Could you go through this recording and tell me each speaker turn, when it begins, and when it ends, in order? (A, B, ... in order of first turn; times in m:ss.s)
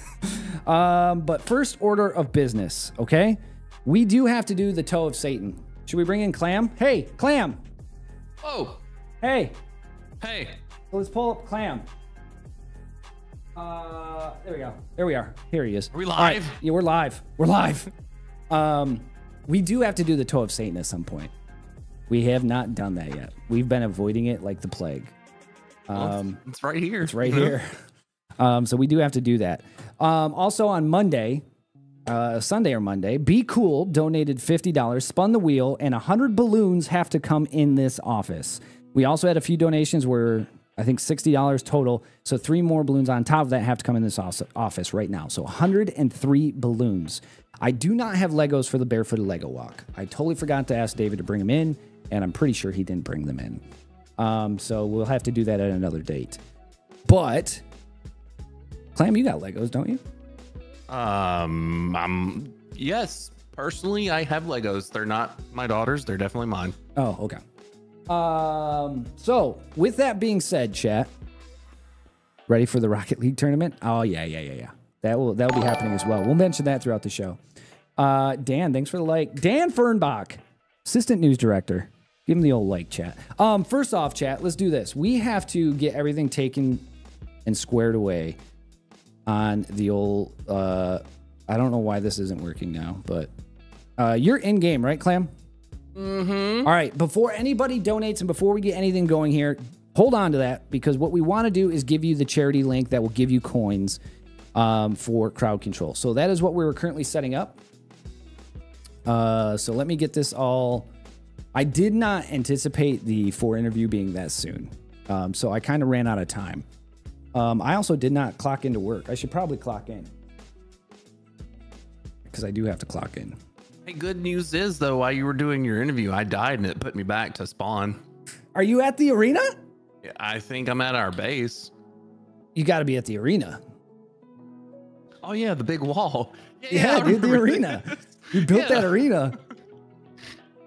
0:00.2-0:07.6 A
0:08.4-0:08.8 B
0:09.2-0:09.6 A
0:10.2-0:10.6 B
0:10.9-0:11.9 A
0:13.5-0:17.9 A
0:15.9-0:16.6 B
0:18.5-0:21.3 A
0:22.1-0:25.1 A
0:25.9-0:26.4 A
0:25.9-0:27.6 B
0:27.0-0:27.7 A
0:28.4-0:31.4 A
0:32.0-0:53.6 A
0:54.2-0:56.4 A
0:57.0-0:57.6 A
0:58.9-1:00.0 A
1:00.9-1:06.7 B
1:07.0-1:07.4 A
1:08.1-1:11.1 A
1:12.5-1:17.4 A
1:18.0-1:26.8 A
1:27.4-1:28.4 A
1:29.2-1:33.3 A
1:34.0-1:35.3 A
1:35.9-1:36.7 B
1:36.6-1:44.0 A
1:44.5-1:47.6 A
1:49.0-1:50.9 A
1:51.5-1:56.6 A
1:57.3-2:00.1 A
2:02.3-2:03.4 A
2:03.8-2:08.0 B
2:08.5-2:09.6 A
2:10.0-2:11.7 B
2:12.5-2:13.6 A
2:15.2-2:19.0 B
2:16.7-2:19.4 A